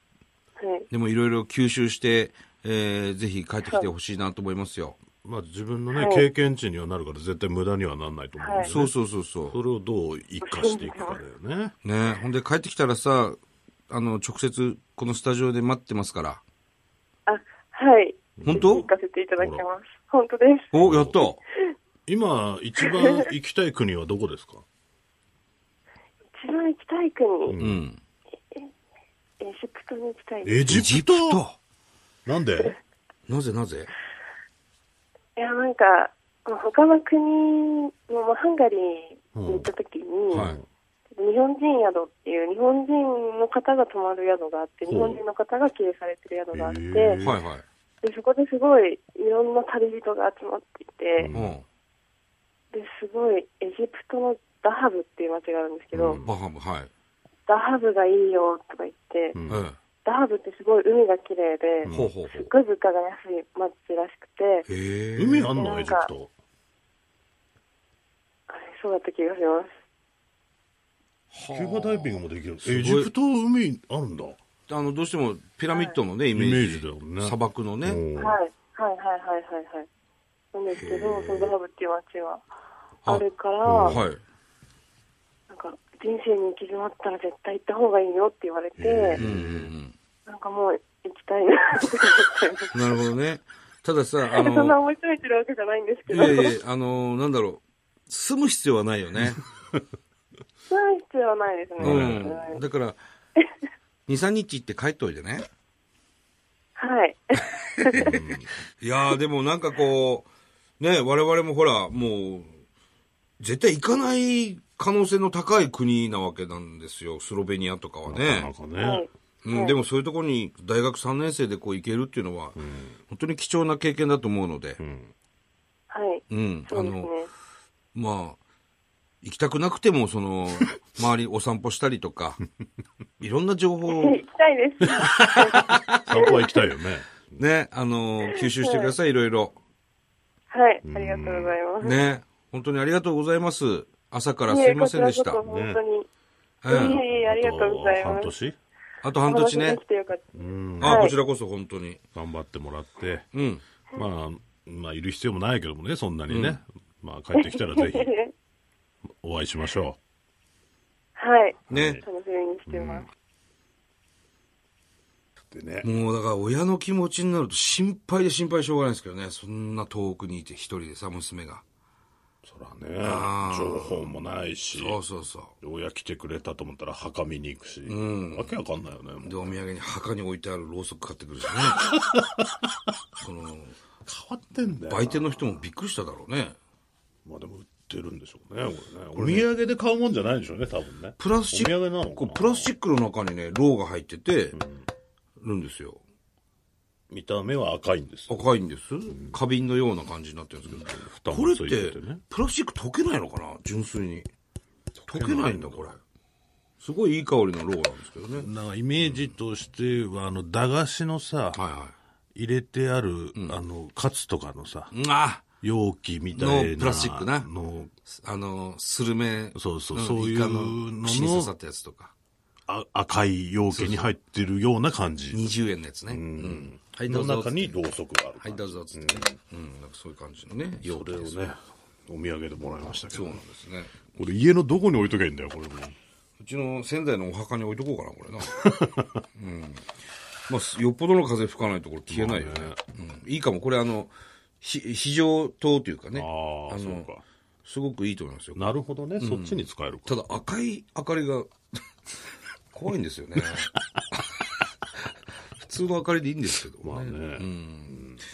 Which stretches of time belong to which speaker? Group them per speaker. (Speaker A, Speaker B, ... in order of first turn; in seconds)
Speaker A: 0.6-0.9, 5.9-6.3, 8.4-8.7, 10.4-11.2, 17.3-20.7, 22.8-23.3, 26.3-27.6, 29.4-30.7, 35.4-40.5, 41.2-47.2, 48.0-51.3, 52.7-56.2, 57.5-59.4, 60.0-64.7, 65.6-66.1, 68.5-69.7, 78.2-79.9, 80.5-82.4, 83.1-84.0, 85.5-89.2, 90.3-92.8, 94.3-96.6, 100.7-102.6, 106.8-108.1, 118.8-119.8, 125.9-127.3, 133.9-136.6, 138.3-138.9, 140.5-142.0, 144.5-146.1, 146.7-148.3, 149.3-150.3, 150.8-151.2, 157.3-158.3, 161.2-163.1
Speaker B: 0.9-5.0, 8.6-9.6, 11.8-13.4, 13.9-16.4, 18.4-18.9, 20.7-21.4, 27.6-28.0, 30.7-31.6, 33.3-33.9, 40.3-40.6, 47.2-47.6, 51.3-51.6, 56.2-56.9, 59.5-59.8, 61.9-62.5, 64.7-65.6, 71.3-73.1, 74.7-78.0, 80.7-81.5, 83.8-84.2, 89.2-89.9, 92.7-94.8, 96.1-99.4, 101.8-103.0, 104.1-105.5, 107.8-108.1, 108.8-110.3, 110.8-112.5, 113.4-118.5, 119.4-124.8, 126.3-127.1, 127.9-128.4, 129.2-132.4, 133.2-134.2, 135.0-136.0, 137.4-139.6, 141.8-145.4, 146.6-147.0, 149.0-149.8, 150.8-152.0, 153.3-153.6, 156.3-156.6, 161.7-162.0, 165.8-171.6, 173.0-174.1, 174.7-175.5, 177.9-178.5, 179.2-181.8, 183.2-183.8, 184.9-186.6, 189.2-189.5, 191.2-194.6, 195.4-196.0, 198.3-204.3, 205.1-206.0, 206.8-208.5, 209.0-209.3, 211.6-211.9, 214.9-215.4, 216.3-217.5, 218.1-222.1, 223.7-224.1, 225.3-227.8, 228.4-231.4, 233.1-234.0, 236.4-238.6, 239.3-239.9, 240.5-247.1, 247.7-251.5, 252.7-254.2, 255.6-258.0
Speaker C: 5.2-8.9, 9.5-11.7, 18.4-19.6, 20.8-21.2, 22.1-24.6, 27.5-27.8, 30.4-31.4, 32.3-32.8, 39.4-39.7, 40.3-40.6, 44.9-45.2, 46.5-47.4, 51.2-51.6, 55.9-56.4, 59.4-59.6, 61.8-62.1, 65.2-66.3, 71.5-74.4, 76.3-78.4, 83.7-84.0, 88.8-89.7, 101.8-102.3, 108.0-108.5, 118.1-119.1, 122.6-123.0, 124.8-125.1, 134.8-135.1, 135.9-137.4, 140.8-141.6, 145.4-145.8, 146.7-148.6, 150.3-151.1, 152.2-153.3, 153.9-158.1, 159.2-160.0, 161.7-162.0, 162.7-163.1, 165.5-165.9, 172.4-175.0, 175.6-179.6, 181.8-182.7, 184.1-185.5, 187.2-192.7, 194.5-194.9, 197.1-198.4, 199.1-199.4, 200.7-202.2, 205.0-205.9, 208.4-211.6, 212.3-214.9, 215.6-217.9, 219.6-221.5, 222.7-225.5, 226.1-229.4, 230.8-233.4, 234.1-236.0, 238.6-239.2, 242.1-242.8, 246.2-247.2, 248.6-250.1, 256.8-258.2